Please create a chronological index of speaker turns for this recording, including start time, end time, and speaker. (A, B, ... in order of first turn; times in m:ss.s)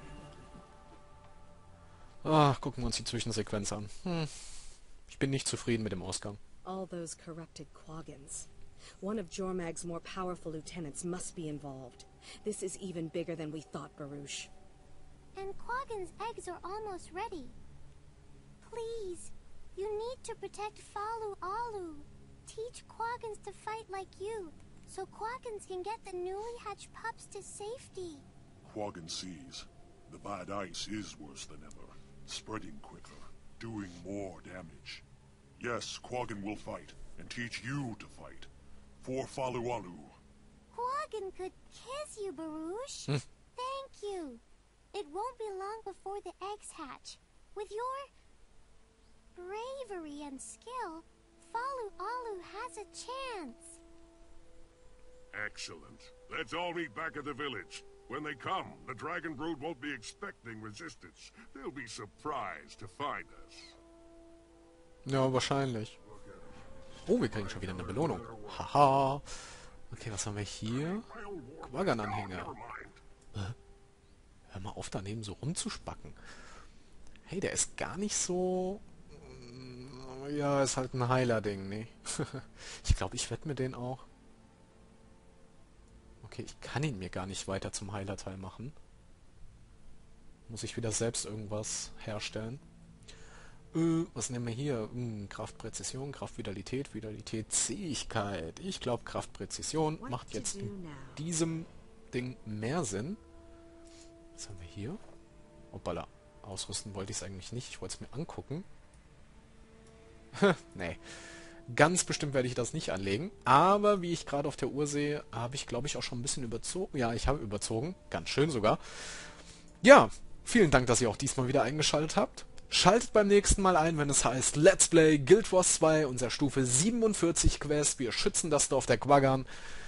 0:02.2-0:06.4 A
0:06.6-0:08.5 B
0:09.0-0:14.5 B
0:15.3-0:17.6 C
0:18.6-0:28.2 C
0:28.6-0:35.0 D
0:35.6-0:40.2 D
0:40.7-0:48.1 C
0:49.3-0:53.8 C
0:55.3-1:03.8 E
1:05.0-1:06.0 A
1:06.1-1:06.5 E
1:07.0-1:11.0 A
1:07.1-1:08.6 E
1:10.7-1:13.0 E
1:11.6-1:12.6 A
1:14.5-1:16.2 A
1:17.2-1:24.0 A
1:26.2-1:28.7 A
1:30.5-1:32.6 A
1:33.7-1:43.2 A
1:40.0-1:41.2 B
1:44.4-1:45.0 A
1:45.7-1:48.6 A
1:50.3-2:09.5 A